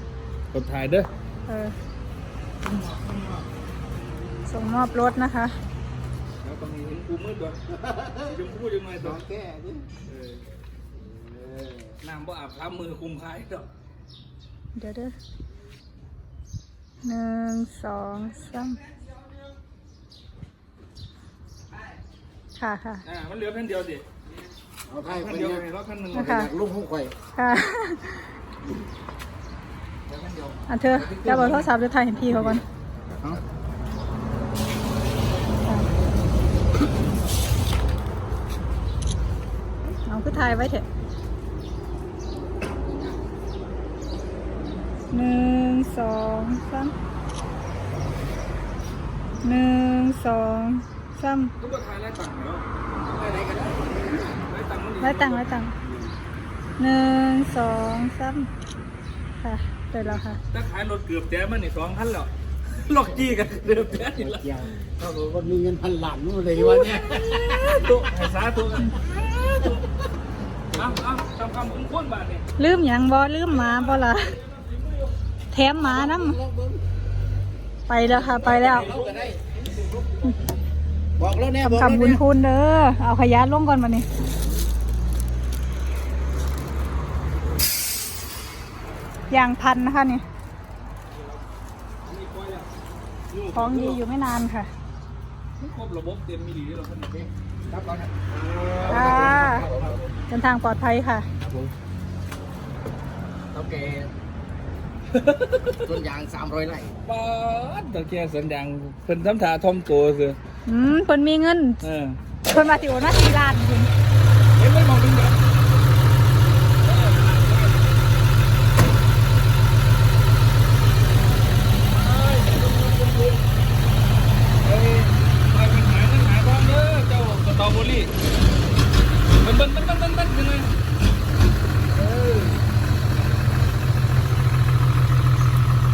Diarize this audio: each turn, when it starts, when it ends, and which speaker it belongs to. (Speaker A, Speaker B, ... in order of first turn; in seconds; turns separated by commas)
Speaker A: 0.5-1.1, Speaker B: 1.5-1.7, Speaker A: 2.7-3.4, Speaker B: 4.5-5.6, Speaker A: 6.4-7.6, Speaker C: 7.7-8.4, Speaker A: 8.2-9.2, Speaker C: 9.0-9.9, Speaker A: 10.1-10.4, Speaker C: 11.4-11.9, Speaker A: 12.0-13.7, Speaker B: 14.8-15.2, Speaker B: 17.0-18.8, Speaker B: 22.6-23.0, Speaker A: 23.1-24.1, Speaker C: 24.9-27.2, Speaker A: 25.1-26.4, Speaker B: 26.1-26.5, Speaker B: 27.4-28.3, Speaker A: 30.1-31.7, Speaker B: 30.7-32.6, Speaker A: 32.3-32.6, Speaker B: 40.1-40.9, Speaker B: 45.1-46.9, Speaker B: 49.4-51.5, Speaker A: 51.6-52.6, Speaker C: 53.1-54.2, Speaker A: 54.5-55.5, Speaker B: 55.0-55.8, Speaker C: 55.8-56.2, Speaker B: 56.8-58.5, Speaker B: 59.4-60.4, Speaker A: 60.4-64.7, Speaker C: 64.0-67.9, Speaker A: 66.5-69.9, Speaker A: 70.7-72.5, Speaker B: 72.6-74.4, Speaker A: 73.5-75.2, Speaker B: 75.5-76.4, Speaker C: 75.7-77.1, Speaker B: 77.9-78.9, Speaker A: 78.0-80.4, Speaker C: 78.3-79.5, Speaker C: 81.2-82.2, Speaker B: 81.7-84.1, Speaker B: 89.3-90.2, Speaker A: 91.1-91.4, Speaker A: 92.0-92.7, Speaker A: 93.3-94.0, Speaker B: 93.5-94.7, Speaker A: 95.6-100.1, Speaker C: 98.8-100.0, Speaker B: 98.9-99.7, Speaker B: 100.3-101.3, Speaker A: 101.4-101.7, Speaker A: 103.5-104.1, Speaker A: 105.1-106.0, Speaker C: 105.8-107.0, Speaker A: 107.0-110.4, Speaker B: 110.7-111.8, Speaker A: 111.8-112.2, Speaker B: 112.5-113.9, Speaker A: 114.6-115.4, Speaker A: 116.8-117.9, Speaker A: 121.9-123.4, Speaker A: 124.6-128.1, Speaker A: 129.4-130.7, Speaker A: 132.0-132.6